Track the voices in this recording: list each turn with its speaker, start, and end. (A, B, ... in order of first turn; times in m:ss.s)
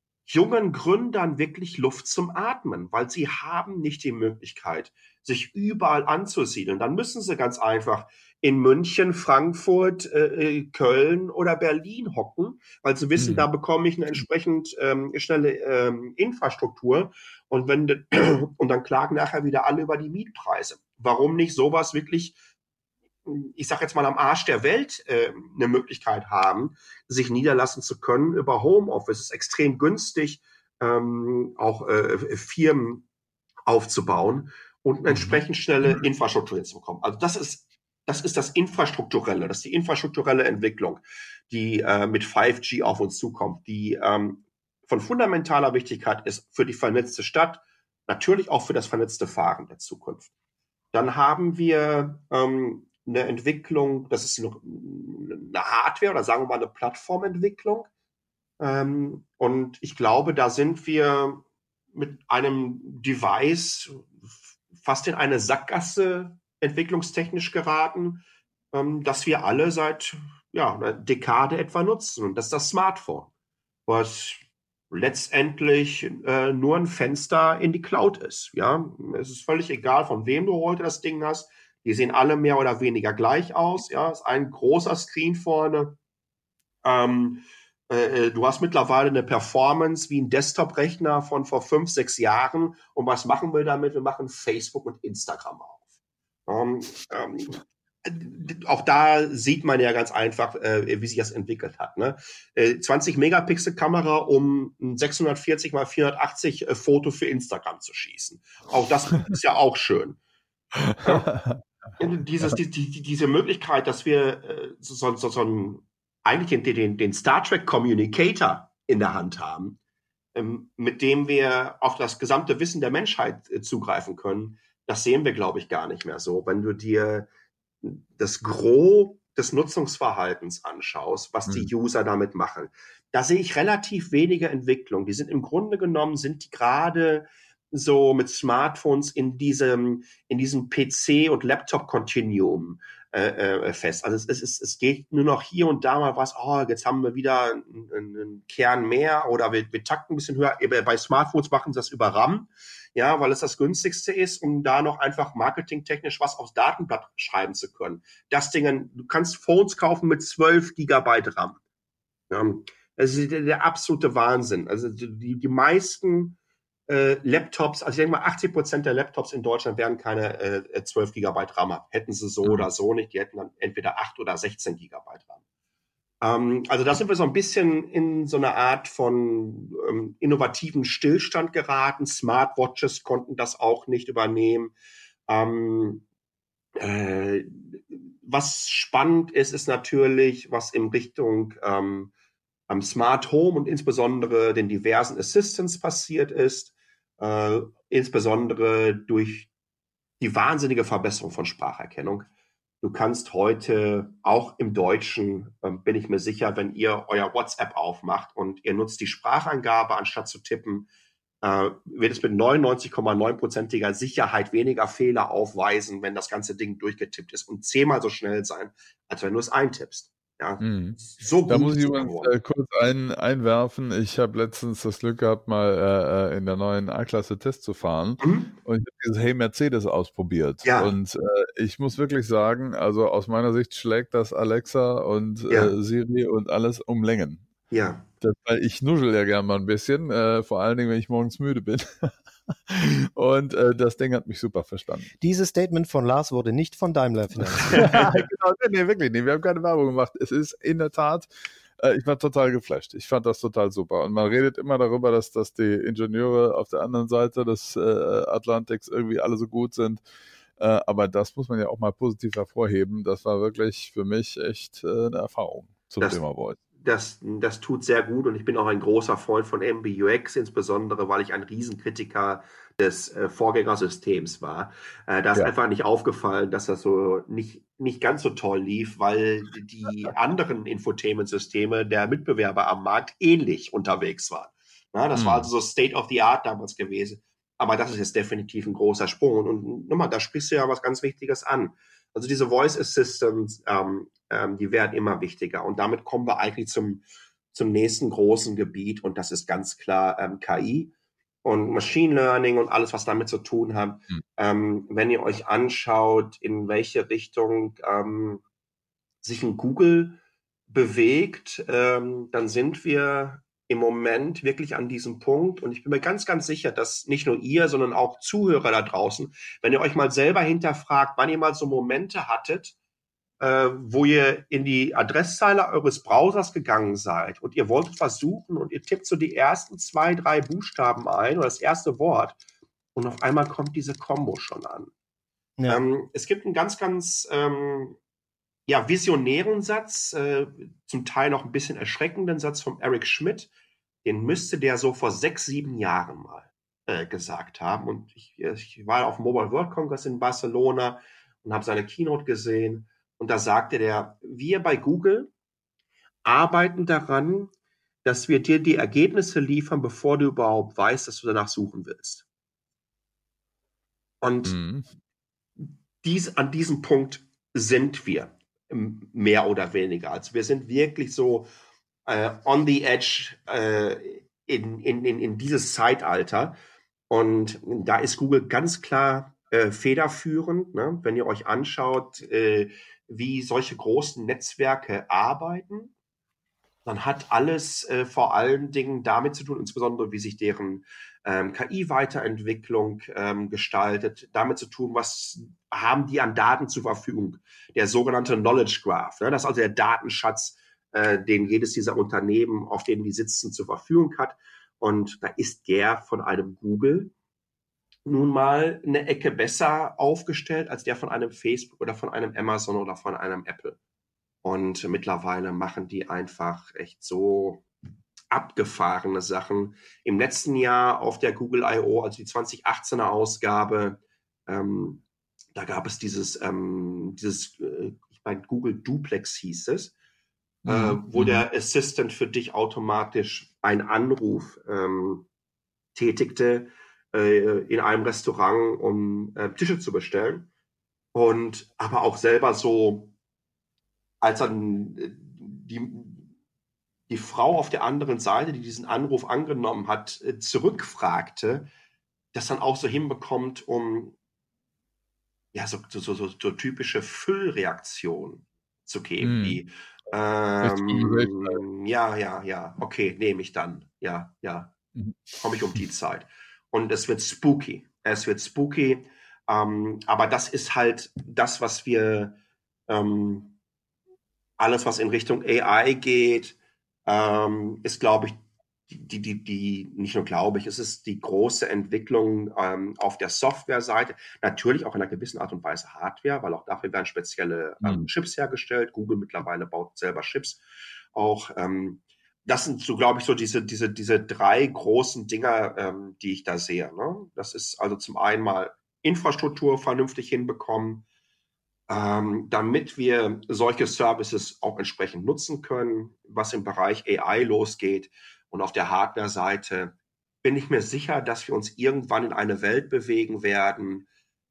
0:00.3-0:22.4 A
0:13.2-0:13.5 B
0:23.2-0:33.0 A
0:33.7-0:50.3 A
0:35.1-0:36.0 B
0:50.9-0:57.9 A
0:58.6-1:13.3 A
1:13.9-1:26.0 A
1:26.8-1:35.8 A
1:36.5-1:50.2 A
1:50.8-1:51.6 B
1:51.0-1:51.3 A
1:52.0-1:59.8 A
2:00.3-2:07.3 A
2:07.8-2:41.6 A
2:42.3-2:55.4 A
2:56.2-3:04.7 A
3:05.3-3:06.0 A
3:06.8-3:12.1 A
3:12.7-3:19.5 A
3:20.2-3:22.3 A
3:22.8-3:30.9 A
3:31.4-3:42.3 A
3:40.6-3:57.4 B
3:48.2-3:48.5 A
3:50.6-3:50.9 A
3:57.7-3:58.0 A
3:58.2-4:02.1 B
4:02.7-4:05.1 B
4:05.2-4:08.1 C
4:07.6-4:11.3 B
4:11.8-4:20.0 B
4:20.6-4:26.6 B
4:26.8-5:00.9 A
4:45.2-4:45.5 B
5:01.4-5:08.4 A
5:09.2-5:10.2 A
5:10.7-5:22.7 A
5:23.4-5:32.4 A
5:32.9-5:34.9 A
5:35.7-5:38.0 A
5:38.7-5:43.5 A
5:44.0-5:55.3 A
5:56.2-5:57.5 A
5:58.0-6:02.2 A
6:04.2-6:04.6 A
6:04.4-6:04.8 B
6:05.6-6:11.5 A
6:12.0-6:16.5 A
6:17.1-6:25.9 A
6:26.8-6:47.1 A
6:48.0-6:53.8 A
6:54.4-6:57.6 A
6:58.3-7:09.9 A
7:10.6-7:11.4 B
7:10.6-7:15.3 A
7:15.9-7:20.5 A
7:21.1-7:23.1 A
7:24.2-7:26.3 A
7:27.1-7:31.7 A
7:32.3-7:34.1 A
7:35.5-7:44.7 A
7:39.2-7:39.6 B
7:40.6-7:41.6 B
7:45.4-7:53.5 A
7:54.6-7:58.4 A
7:58.9-8:10.6 A
8:11.1-8:21.0 A
8:21.9-8:34.1 A